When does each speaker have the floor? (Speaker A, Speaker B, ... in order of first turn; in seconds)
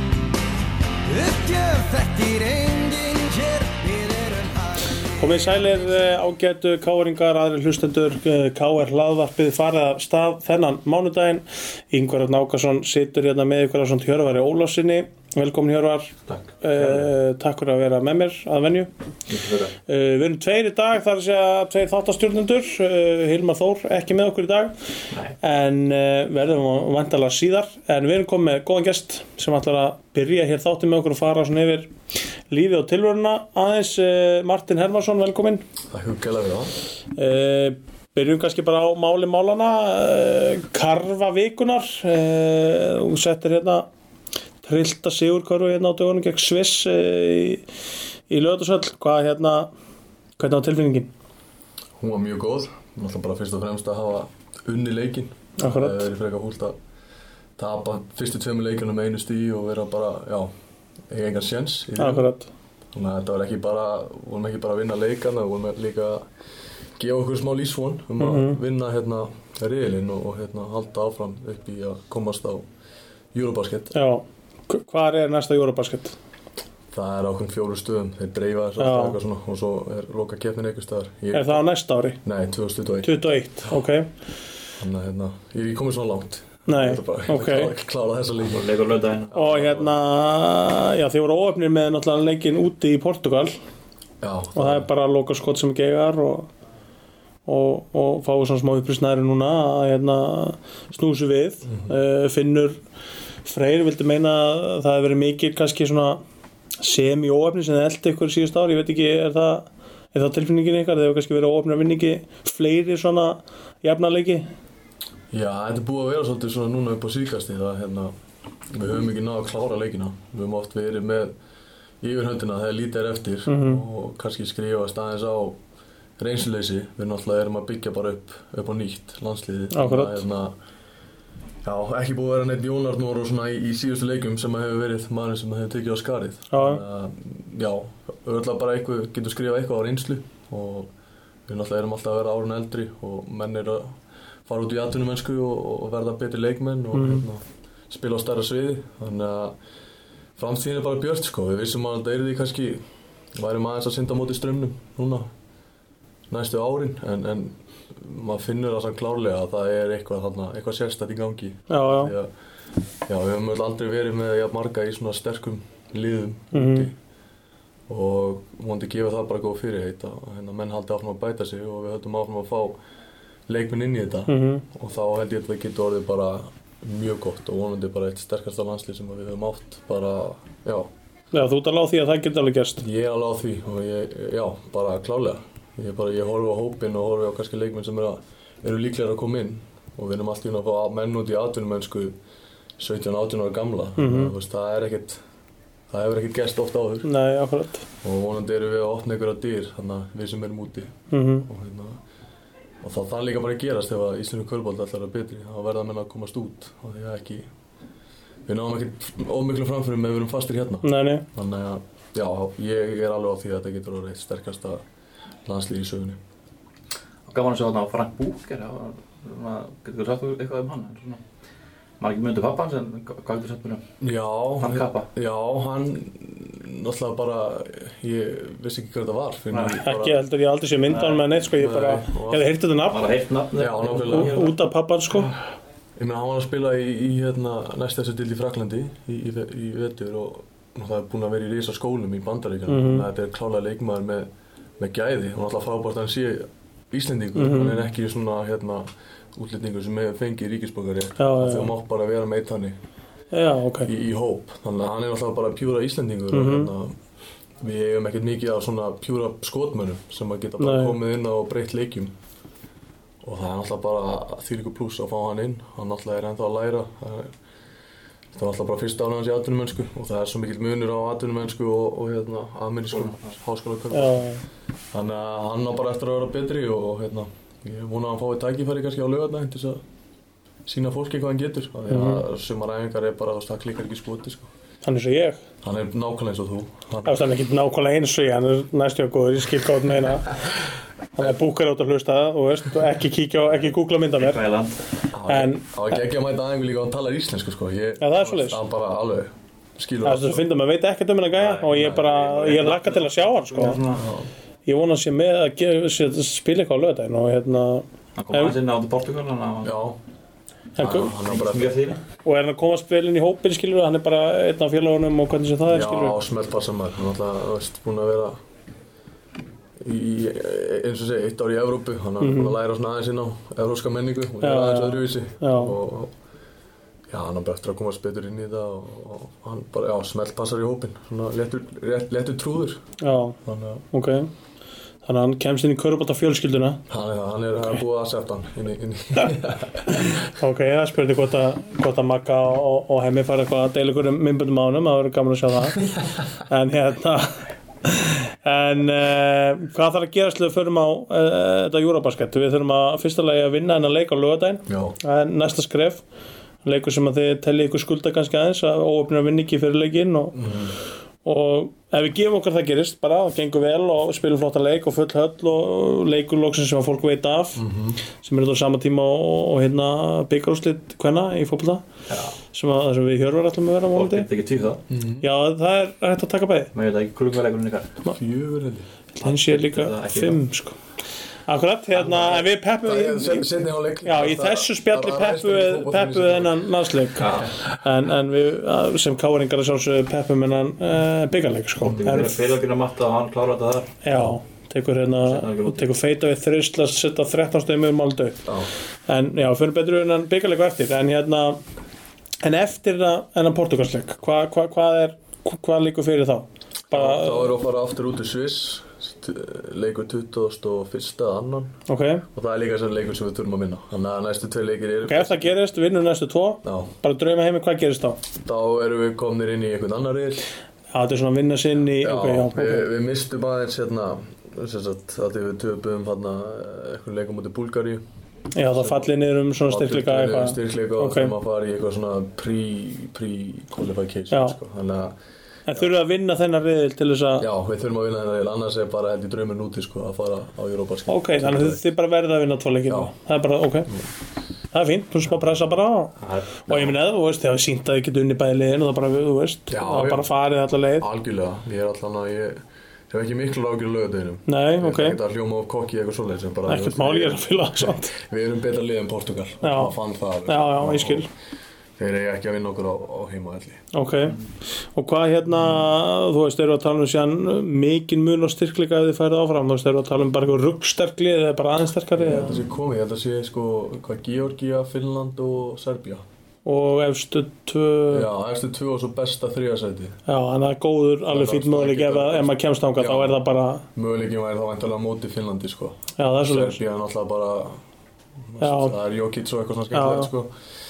Speaker A: 1.1-5.3
Speaker B: 5.2-18.9, 19.9-24.7, 25.4-31.9, 32.5-35.6, 37.1-43.9, 44.6-47.6, 48.3-49.7, 50.4-51.1, 55.6-56.0, 62.0-62.5, 68.2-68.6, 73.9-76.2, 78.8-79.2, 81.3-82.2, 83.0-84.1, 86.7-87.7, 89.3-93.5, 94.5-96.5, 97.5-102.8, 103.4-106.2, 106.8-114.5, 123.5-123.8, 129.7-130.2, 136.5-136.8, 146.9-147.2, 161.7-162.1, 166.5-166.9, 174.3-174.6, 181.3-182.8, 194.0-194.3, 197.0-197.8, 201.1-201.5, 210.8-211.2, 229.8-233.1, 234.1-235.3, 242.7-243.1, 247.3-247.8, 251.2-251.7, 253.3-253.9, 256.3-256.7, 260.6-261.0, 273.9-274.4, 281.9-282.2, 284.8-285.4, 287.0-290.4, 291.1-294.4, 295.3-295.6, 298.0-298.6, 300.0-303.8, 304.7-308.5, 310.8-311.1, 312.2-316.2, 322.2-322.6, 324.4-325.8, 333.0-333.4, 333.9-334.3, 335.0-336.8, 339.9-345.9, 346.4-356.0, 356.6-360.5, 361.2-367.6, 368.2-371.8, 372.5-374.3, 375.2-376.7, 379.2-380.8, 381.5-383.5, 384.0-392.5, 394.0-398.4, 399.1-401.6, 402.4-407.5, 411.9-412.2, 415.0-418.2, 420.9-422.9, 428.5-431.3, 434.3-434.6, 435.7-437.5, 441.1-443.9, 444.7-451.1, 454.5-455.2, 456.6-458.1, 459.6-459.9, 460.4-461.3, 463.9-464.4, 464.9-472.6, 476.6-478.3, 480.3-483.8, 486.2-486.8, 488.6-488.9, 489.9-490.3
Speaker C: 16.3-17.0, 19.3-19.7, 88.5-89.3, 217.3-221.2, 222.0-223.8, 224.6-225.1, 229.5-229.8, 230.9-231.2, 232.9-234.5, 272.9-273.2, 294.2-294.8, 301.4-304.0, 308.2-309.7, 311.2-312.0, 373.9-374.8, 376.7-378.0, 379.2-380.4, 382.0-382.4, 387.2-387.5, 391.8-394.0, 395.2-395.9
Speaker D: 35.9-36.7, 52.0-56.8, 57.6-60.5, 61.1-62.3, 62.9-66.2, 67.0-72.7, 73.3-73.9, 76.9-81.6, 82.2-83.2, 84.8-88.8, 89.3-89.9, 94.2-94.9, 115.3-118.1, 118.7-121.3, 122.0-125.6, 126.2-130.5, 131.6-140.9, 141.5-149.6, 150.4-155.3, 156.3-162.3, 163.1-166.9, 167.9-172.8, 173.5-180.9, 182.8-192.2, 192.8-195.2, 195.9-197.1, 198.0-202.0, 202.8-207.5, 208.4-214.8, 215.4-216.2, 224.0-230.2, 231.5-232.5, 233.6-234.4, 236.0-244.3, 244.8-252.8, 253.8-256.9, 257.6-262.1, 263.2-267.4, 268.3-274.3, 274.9-279.8, 280.6-284.5, 285.6-287.2, 295.1-300.4, 301.8-302.0, 303.9-304.3, 309.6-310.0, 310.8-311.8, 315.6-318.4, 319.8-326.1, 327.1-333.8, 336.9-340.3, 354.7-355.0, 360.3-360.8, 367.6-368.0, 374.9-375.2, 378.1-378.9, 382.8-386.6, 406.9-411.8, 412.3-415.6, 416.6-416.9, 418.4-420.5, 422.0-428.0, 428.7-429.1, 429.6-435.2, 437.4-441.9, 446.7-446.9, 449.7-450.3, 450.9-461.3, 462.0-463.8, 472.1-476.2, 478.1-480.2, 481.3-483.4, 483.9-487.8, 488.4-490.5